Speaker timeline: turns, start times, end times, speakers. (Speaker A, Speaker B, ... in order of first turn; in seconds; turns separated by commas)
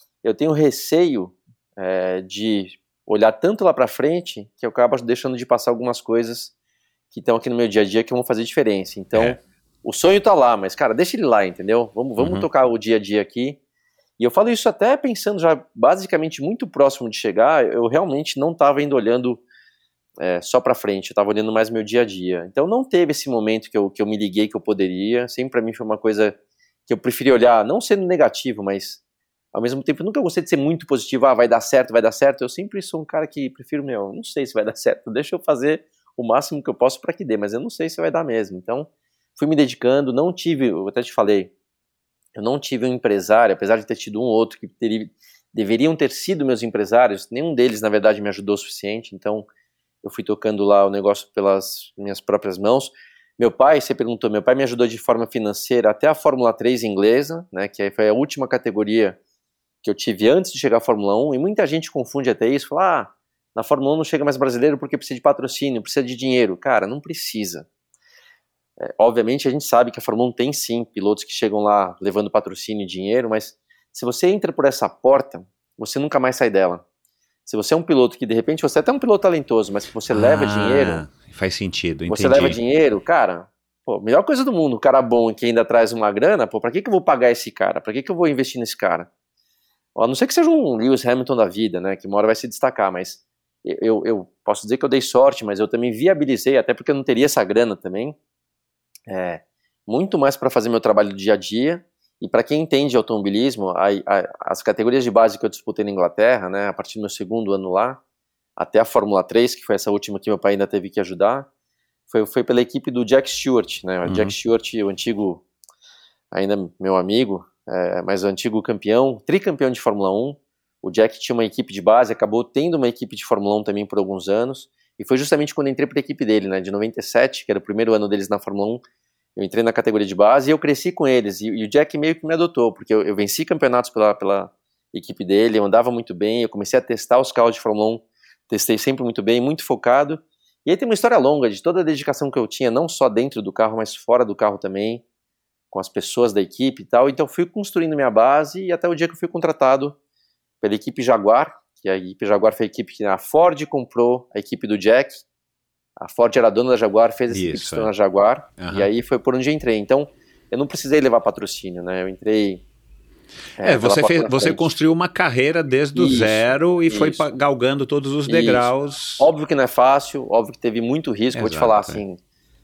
Speaker A: 0.2-6.5, Speaker A: 7.1-13.6, Speaker B: 12.2-12.5, Speaker A: 14.2-19.4, Speaker A: 20.2-26.3, Speaker A: 26.9-29.0, Speaker A: 29.5-41.5, Speaker A: 42.4-49.5, Speaker A: 50.0-59.2, Speaker A: 59.8-67.7, Speaker A: 68.8-76.8, Speaker A: 77.5-81.0, Speaker B: 80.1-82.6, Speaker A: 82.1-89.1, Speaker A: 89.9-98.2, Speaker A: 99.1-108.0, Speaker A: 108.6-111.5, Speaker A: 112.1-115.4, Speaker B: 114.0-114.3, Speaker A: 116.3-128.8, Speaker A: 129.3-145.0, Speaker A: 145.7-149.9, Speaker A: 150.6-155.2, Speaker A: 156.0-162.6, Speaker B: 157.3-157.9, Speaker B: 158.6-158.9, Speaker A: 163.6-164.7, Speaker B: 163.6-169.3, Speaker A: 165.9-167.2, Speaker A: 168.3-172.2, Speaker B: 171.3-172.0